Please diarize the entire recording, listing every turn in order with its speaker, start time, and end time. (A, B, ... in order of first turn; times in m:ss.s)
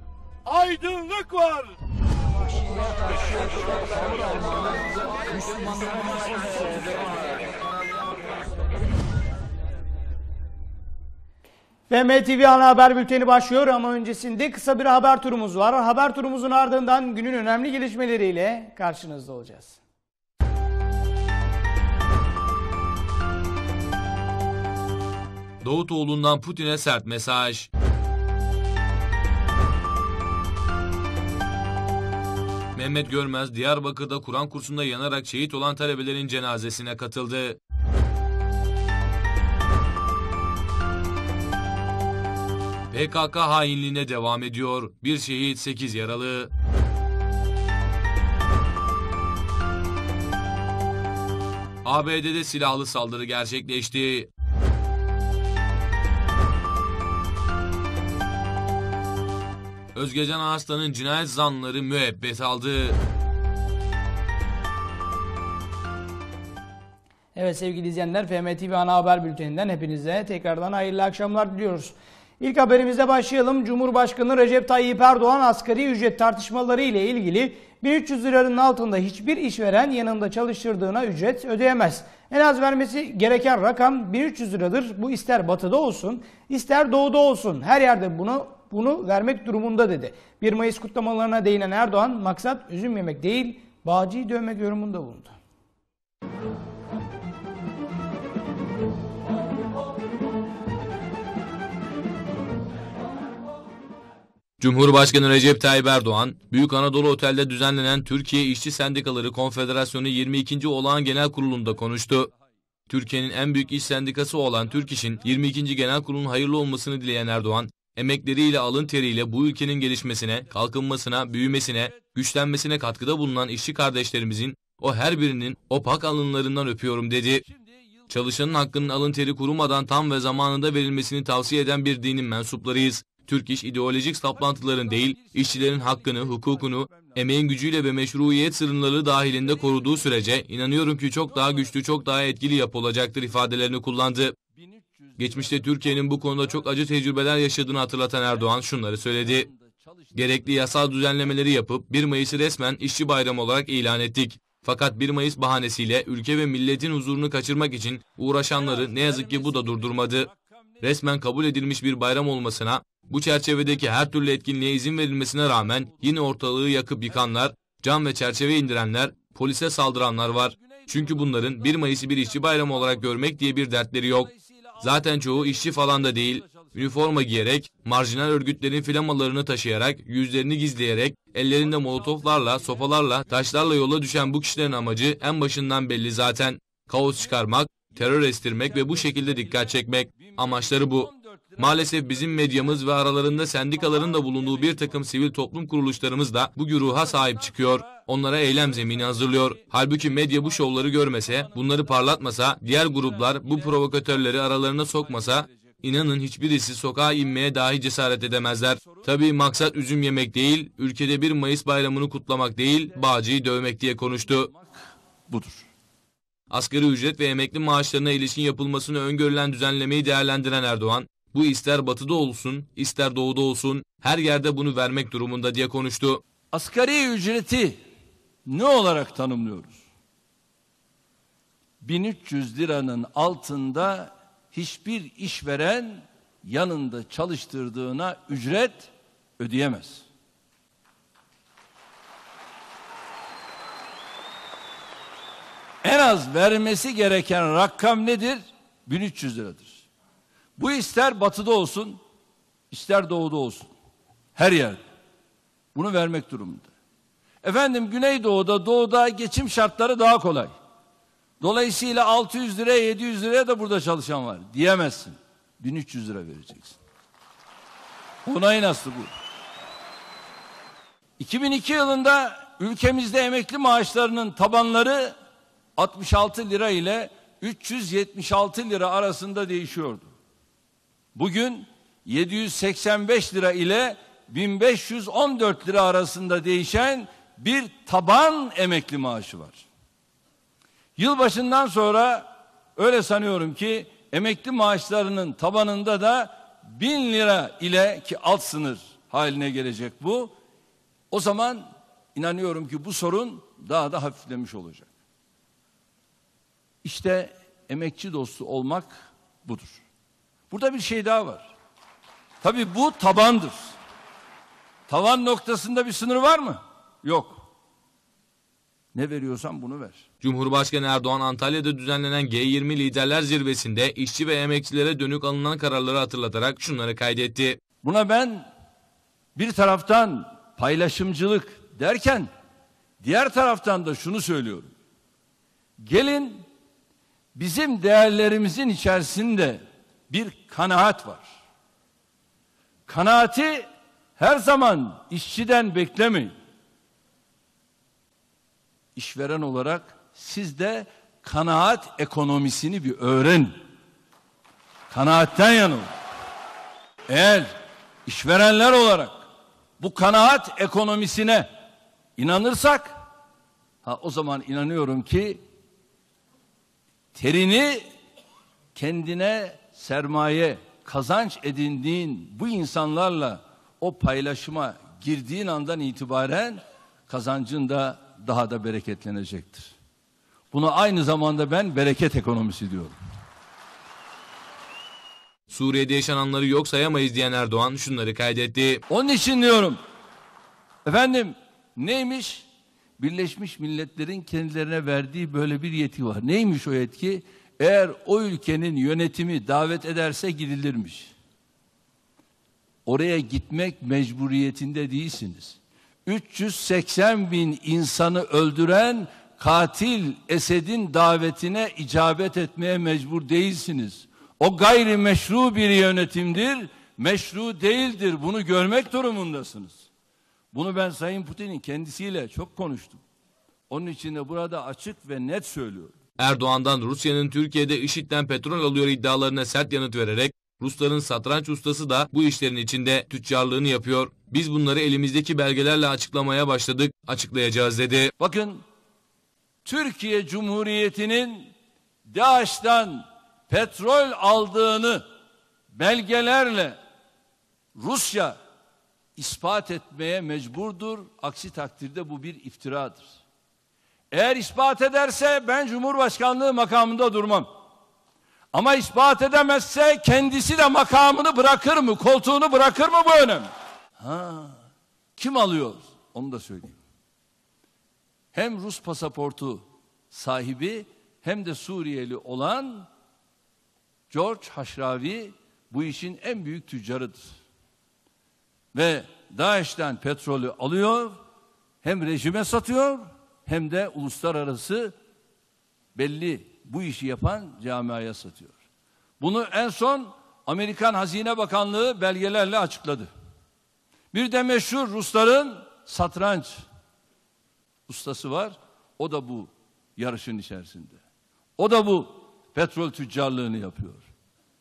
0:00.5-0:01.8 A
0:11.9-0:19.8 B
0:25.6-0:27.7 C
0:32.8-0:37.6 C
0:42.9-0:46.5 C
0:51.8-0:54.3 C
1:00.0-1:03.0 C
1:07.4-1:35.4 B
1:44.6-1:52.3 C
1:52.9-2:07.4 C
2:01.6-2:02.1 A
2:07.4-2:08.9 A
2:08.1-2:24.4 C
2:14.2-2:17.4 A
2:19.2-2:20.1 A
2:21.3-2:21.8 A
2:24.6-2:26.8 A
2:25.2-2:29.5 C
2:27.9-2:30.7 A
2:30.2-2:40.3 C
2:38.5-2:40.8 A
2:40.8-3:34.5 C
2:45.5-2:46.1 A
2:50.6-2:53.3 A
2:53.8-2:57.2 A
3:01.6-3:03.3 A
3:07.9-3:13.0 A
3:13.5-3:15.1 A
3:16.8-3:21.9 A
3:22.9-3:25.8 A
3:28.8-3:29.1 A
3:34.3-3:35.7 A
3:36.5-3:46.2 C
3:46.5-3:47.8 A
3:48.5-3:49.8 A
3:51.8-4:00.1 A
4:05.8-4:09.8 A
4:10.6-4:12.0 A
4:12.7-4:13.7 A
4:14.4-4:14.8 A
4:15.8-4:16.7 A
4:17.4-4:20.5 A
4:21.4-4:26.8 A
4:28.3-4:29.1 A
4:31.2-4:35.2 A
4:35.8-4:40.1 A
4:41.2-4:49.7 A
4:51.0-5:00.4 A
5:01.1-5:04.9 A
5:06.8-5:09.8 A
5:10.5-5:11.5 A
5:12.4-5:13.8 A
5:14.9-5:17.4 A
5:19.0-5:20.0 A
5:20.2-5:27.6 C
5:27.8-5:28.5 A
5:29.4-5:32.3 A
5:33.0-5:34.7 A
5:35.8-5:36.4 A
5:37.4-5:41.3 A
5:42.9-5:46.3 A
5:49.0-5:53.6 A
5:54.9-5:55.9 A
5:57.1-5:59.2 A
5:59.8-6:01.5 A
6:02.2-6:03.0 A
6:03.8-6:05.4 A
6:07.2-6:07.9 A
6:08.8-6:19.7 A
6:20.5-6:23.0 A
6:25.5-6:28.8 C
6:28.9-6:29.8 A
6:30.8-6:32.5 A
6:33.0-6:41.1 A
6:42.9-6:59.9 A
7:00.5-7:03.0 A
7:03.7-7:06.0 A
7:06.2-7:18.1 C
7:18.2-7:18.6 A
7:19.6-7:21.5 A
7:22.1-7:25.0 A
7:25.7-7:26.8 A
7:27.8-7:28.4 A
7:29.2-7:33.2 A
7:34.1-7:37.5 A
7:38.5-7:44.6 A
7:45.2-7:46.8 A
7:48.3-7:52.9 A
7:54.1-7:57.4 A
7:58.7-8:01.2 A
8:01.8-8:04.9 A
8:06.0-8:08.6 A
8:09.2-8:13.1 A
8:14.1-8:16.6 A
8:17.9-8:21.0 A
8:21.6-8:24.0 A